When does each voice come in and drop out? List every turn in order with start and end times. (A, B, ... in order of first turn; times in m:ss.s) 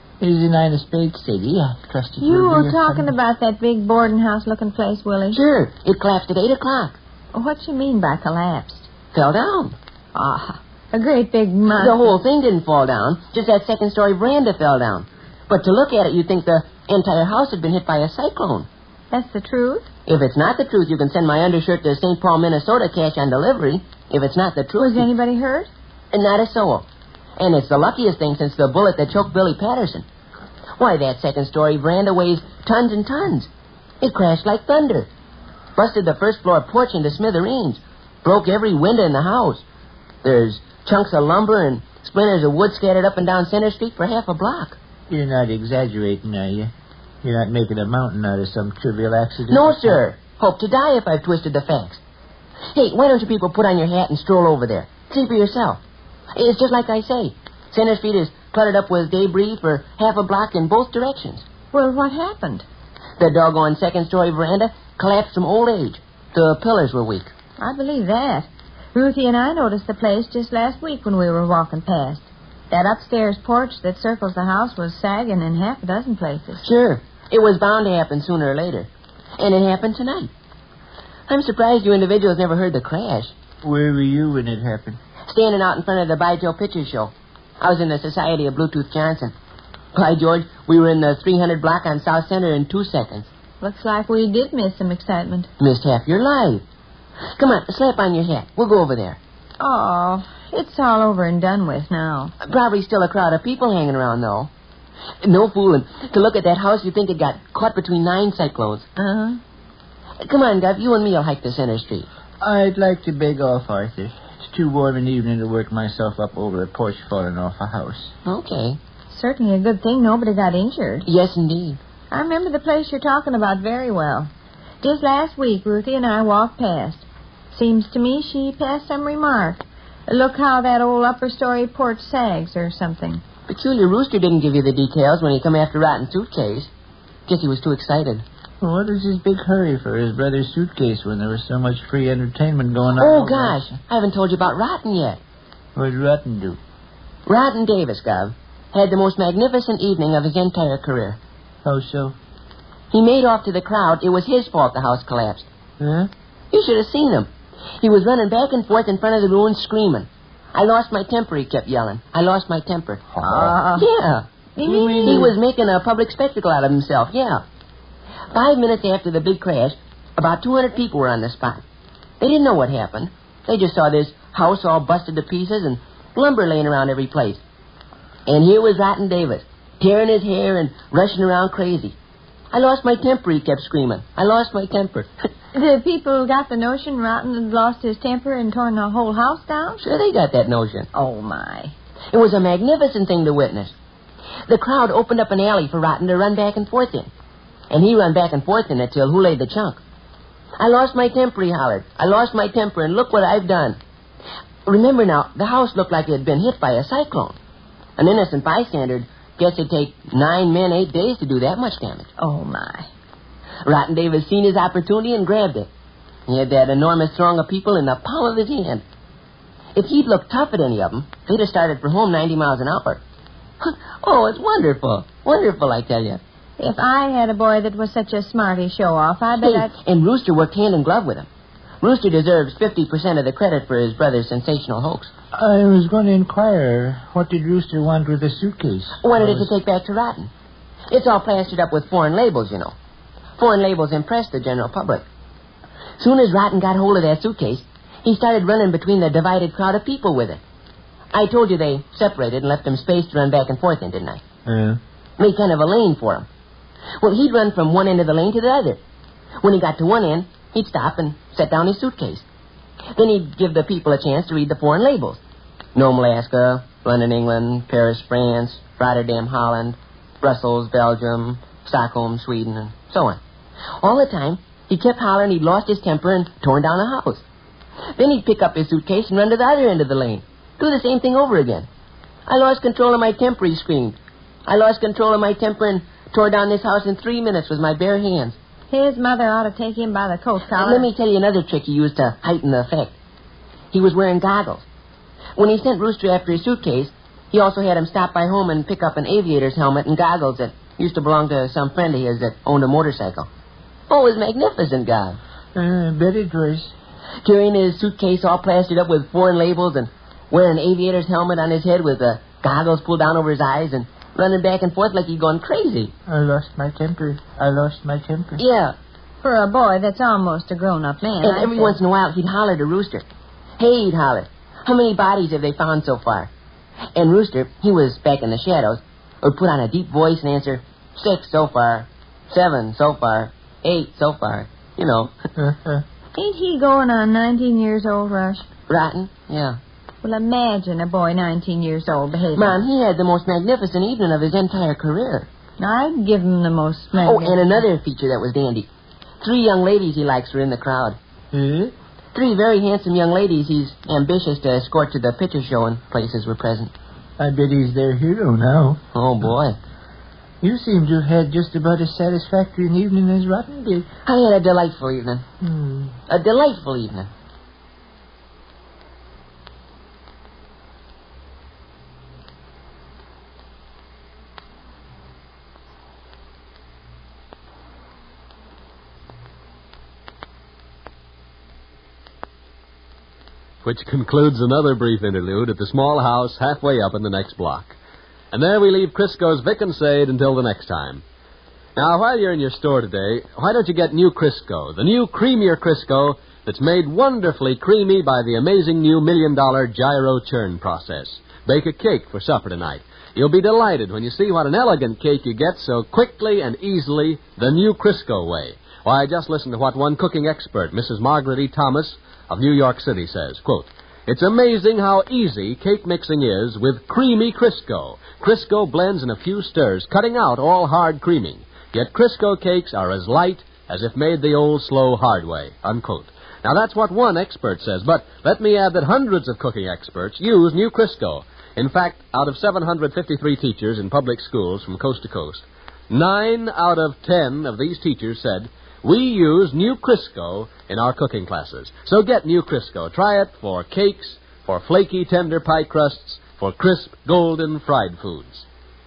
0:00.2-0:03.1 A
0:02.2-0:05.4 B
0:05.3-0:07.0 C
0:07.3-0:08.9 B
0:09.1-0:09.7 C
0:10.1-0:12.1 B
0:11.7-0:18.7 C
0:19.1-0:19.8 B
0:20.1-0:25.1 C
0:24.8-0:25.7 B
0:26.1-0:26.8 C
0:27.4-0:30.0 C
0:30.8-0:33.5 C
0:34.0-0:35.1 C
0:35.8-0:39.6 C
0:40.2-0:44.8 C
0:45.1-0:46.7 A
0:47.2-0:50.0 A
0:49.5-0:52.0 C
0:52.7-0:55.8 C
0:56.4-1:01.4 C
1:01.7-1:02.6 B
1:03.2-1:07.3 C
1:07.6-1:16.6 B
1:16.6-1:20.3 C
1:21.3-1:23.3 C
1:23.6-1:25.0 A
1:25.3-1:29.3 C
1:29.9-1:33.3 C
1:33.6-1:35.5 B
1:35.6-1:36.6 C
1:37.4-1:39.2 C
1:39.6-1:42.3 B
1:42.4-1:44.5 C
1:45.2-1:48.9 C
1:49.0-1:49.4 B
1:50.2-1:52.1 C
1:52.4-1:58.1 A
1:58.2-1:58.8 C
1:59.1-2:01.0 B
2:01.0-2:01.8 C
2:02.1-2:04.3 B
2:04.8-2:13.2 B
2:13.5-2:16.7 C
2:17.3-2:18.2 C
2:18.6-2:23.6 A
2:23.0-2:25.2 C
2:25.8-2:26.6 A
2:27.2-2:31.2 C
2:31.6-2:32.2 A
2:32.9-2:35.4 C
2:35.8-2:36.1 A
2:36.5-2:37.3 C
2:37.8-2:43.0 C
2:43.1-2:43.6 A
2:43.2-2:43.9 B
2:43.8-2:44.2 C
2:44.6-2:45.3 B
2:44.6-2:45.3 A
2:45.0-2:47.4 C
2:48.3-2:51.6 C
2:52.2-2:57.4 C
2:58.2-3:01.9 C
3:02.5-3:05.1 C
3:05.5-3:09.8 B
3:09.8-3:10.9 C
3:10.9-3:11.7 B
3:12.1-3:13.7 C
3:14.5-3:17.1 C
3:17.7-3:19.8 C
3:20.6-3:23.8 C
3:24.6-3:27.3 C
3:28.0-3:32.1 C
3:32.2-3:32.9 B
3:33.6-3:35.7 C
3:36.3-3:38.8 C
3:39.7-3:43.0 C
3:43.6-3:46.2 C
3:46.6-3:49.7 B
3:49.4-3:51.3 C
3:51.8-3:55.1 C
3:55.3-3:59.5 A
3:59.0-4:00.3 C
4:00.9-4:02.7 C
4:03.4-4:05.0 C
4:06.0-4:10.4 C
4:11.1-4:14.2 C
4:14.4-4:14.8 A
4:15.2-4:16.3 C
4:17.0-4:18.8 C
4:19.4-4:22.2 C
4:22.9-4:25.2 C
4:25.7-4:33.2 C
4:33.8-4:37.2 C
4:37.9-4:41.7 C
4:42.3-4:48.4 C
4:48.7-4:50.9 B
4:50.5-4:52.9 C
4:53.7-4:54.6 C
4:55.4-5:03.3 C
5:03.9-5:05.2 C
5:05.5-5:06.7 A
5:07.2-5:15.9 C
5:16.1-5:18.4 A
5:18.4-5:18.7 C
5:19.2-5:21.8 B
5:21.2-5:23.0 C
5:23.6-5:26.3 C
5:26.9-5:35.1 C
5:35.4-5:35.8 A
5:36.2-5:38.4 B
5:38.7-5:39.6 C
5:40.0-5:42.6 B
5:42.3-5:45.3 C
5:45.6-5:47.6 B
5:46.9-5:48.7 C
5:49.2-5:51.0 C
5:51.3-5:51.7 A
5:52.1-5:56.7 C
5:57.2-5:58.8 A
5:58.9-5:59.6 C
6:00.4-6:03.9 A
6:04.0-6:05.2 C
6:05.4-6:05.9 A
6:06.1-6:07.1 C
6:23.6-6:27.8 D
6:28.3-6:31.0 D
6:31.8-7:28.4 D